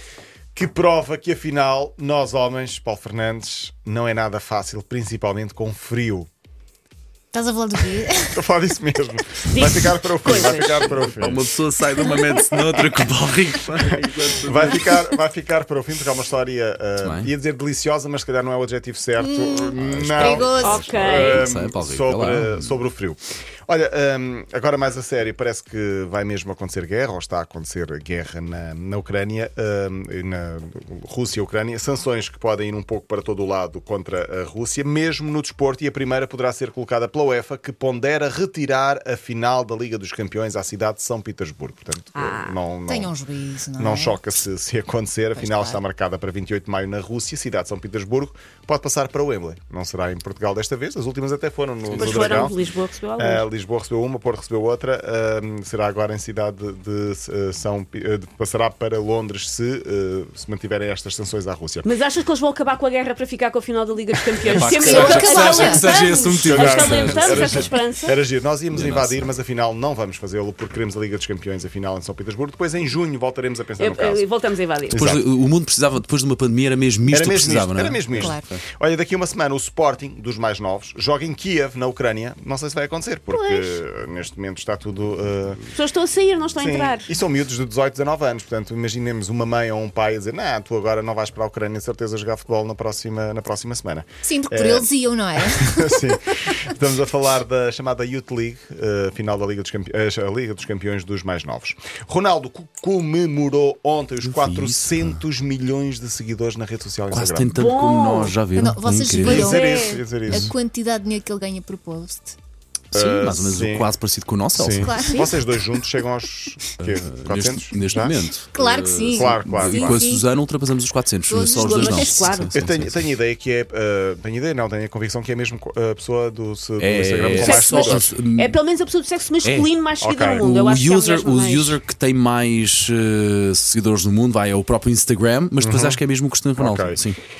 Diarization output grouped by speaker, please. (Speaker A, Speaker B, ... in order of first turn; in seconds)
Speaker A: 0.5-6.3, 8.0-11.4, 14.4-43.2, 43.8-52.5, 53.2-61.9, 64.9-65.3, 66.4-74.2, 74.9-75.2, 77.1-85.6, 86.6-107.5, 109.2-110.5, 112.9-113.9, 114.5-118.2, 119.1-120.1, 122.5-128.2, 130.0-130.5, 135.6-136.0, 136.6-137.1
Speaker B: 7.3-8.4, 12.2-12.5, 19.2-20.9, 42.9-44.3, 45.3-45.8, 64.8-65.9, 78.1-78.5, 83.3-83.8, 94.2-95.9, 108.5-109.7, 110.3-112.3, 114.8-115.4, 118.5-120.2, 121.3-122.4
Speaker C: 9.5-10.9, 20.5-21.5, 42.1-42.6, 51.9-53.5, 61.8-68.2, 73.8-75.0, 85.7-87.1, 107.5-108.4, 109.2-110.0, 115.1-115.3, 121.5-122.6, 127.3-131.8
Speaker D: 10.3-14.9, 17.0-17.3, 19.8-22.8, 51.9-52.5, 64.5-67.7, 68.7-69.3, 74.9-78.6, 104.2-105.2, 107.1-109.5, 110.3-110.5, 112.9-115.0, 116.8-123.0, 126.8-128.6, 129.4-129.7, 130.4-137.2